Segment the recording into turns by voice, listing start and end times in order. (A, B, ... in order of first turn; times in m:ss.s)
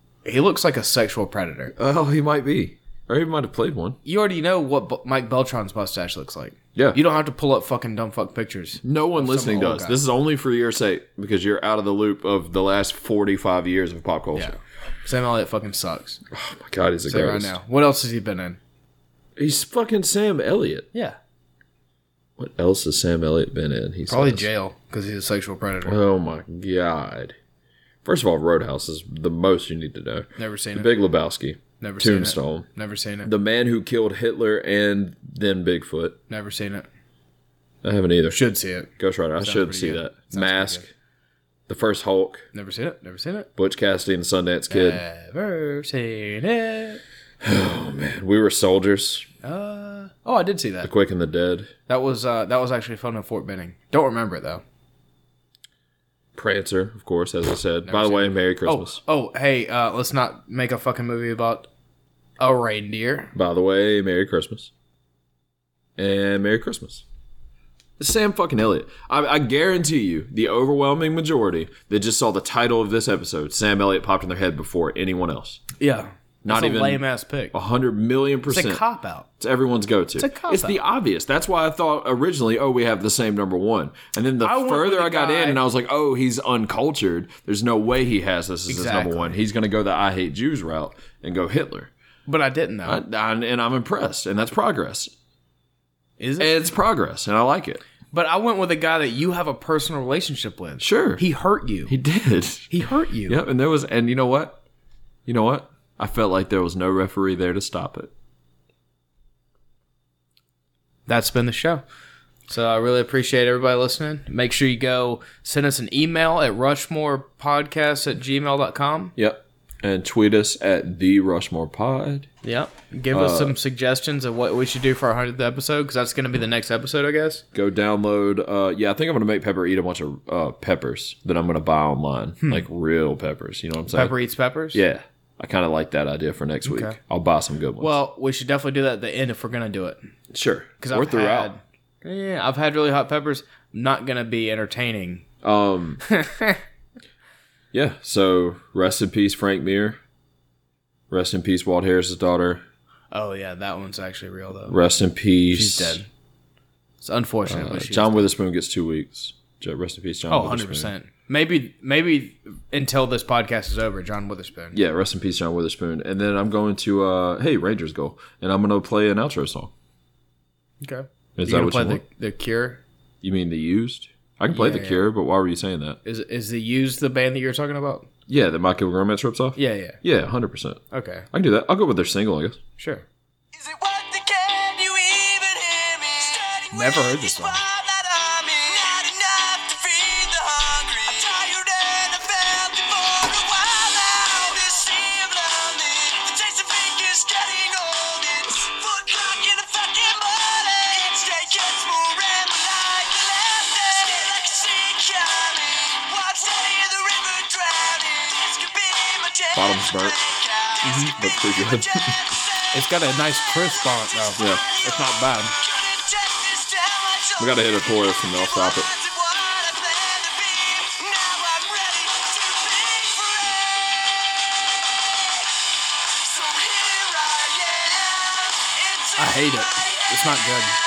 0:00.2-0:01.7 A
0:01.8-0:04.0 B
0:04.0-0:10.0 A
0:08.8-0:14.6 B
0:14.3-0:16.2 A
0:16.3-0:17.5 B
0:17.1-0:18.6 A
0:19.4-0:20.9 B
0:22.4-0:24.5 B
0:24.1-0:26.0 A
0:25.8-0:27.4 B
0:28.0-0:32.7 B
0:30.4-0:30.9 A
0:31.8-0:33.3 A
0:33.2-0:36.2 B
0:36.3-0:36.9 A
0:37.8-0:38.4 B
0:38.3-0:40.8 A
0:39.0-0:40.9 B
0:41.7-0:42.5 B
0:42.5-0:43.5 A
0:43.6-0:45.0 B
0:44.7-0:47.0 A
0:47.4-0:49.3 B
0:49.4-0:50.9 A
0:50.8-0:51.7 B
0:51.9-0:54.6 A
0:56.3-0:59.0 B
0:57.8-1:01.7 A
1:02.4-1:03.3 A
1:03.3-1:04.7 B
1:06.0-1:07.0 B
1:08.0-1:15.6 B
1:15.8-1:17.5 A
1:16.4-1:18.8 B
1:18.5-1:19.3 A
1:19.4-1:31.9 B
1:20.2-1:20.8 A
1:24.4-1:25.6 A
1:28.7-1:29.4 A
1:32.3-1:33.0 A
1:32.8-1:35.1 B
1:36.2-1:36.5 A
1:36.4-1:37.8 B
1:38.1-1:41.9 A
1:40.8-1:41.2 B
1:41.9-1:42.7 B
1:42.7-1:43.4 A
1:43.2-1:44.6 B
1:45.2-1:48.1 B
1:51.1-1:51.8 A
1:52.5-1:59.1 A
1:59.2-2:02.3 B
2:02.4-2:07.4 A
2:03.1-2:03.6 B
2:07.5-2:14.1 B
2:13.9-2:14.8 A
2:14.7-2:18.0 B
2:16.6-2:17.0 A
2:17.8-2:20.0 A
2:20.3-2:21.5 B
2:20.8-2:25.2 A
2:25.4-2:26.0 B
2:26.0-2:26.6 A
2:27.7-2:30.0 B
2:31.1-2:32.6 B
2:33.1-2:34.8 A
2:34.7-2:36.0 B
2:35.5-2:36.1 A
2:37.0-2:38.3 A
2:37.5-2:40.9 B
2:40.3-2:44.8 A
2:44.7-2:49.7 B
2:50.8-2:52.8 A
2:51.4-2:52.0 B
2:53.2-2:56.0 B
2:54.5-2:55.0 A
2:56.0-2:58.1 A
2:58.3-3:00.8 B
2:59.6-3:00.0 A
3:00.9-3:01.3 A
3:01.3-3:02.6 B
3:02.8-3:03.0 A
3:03.5-3:32.8 C
3:06.7-3:07.6 A
3:29.5-3:30.2 B
3:30.8-3:31.1 A
3:31.2-3:32.2 B
3:32.7-3:35.6 A
3:34.4-3:34.6 B
3:35.6-3:44.1 C
3:37.4-3:38.9 B
3:46.1-3:50.4 C
3:49.2-3:50.8 A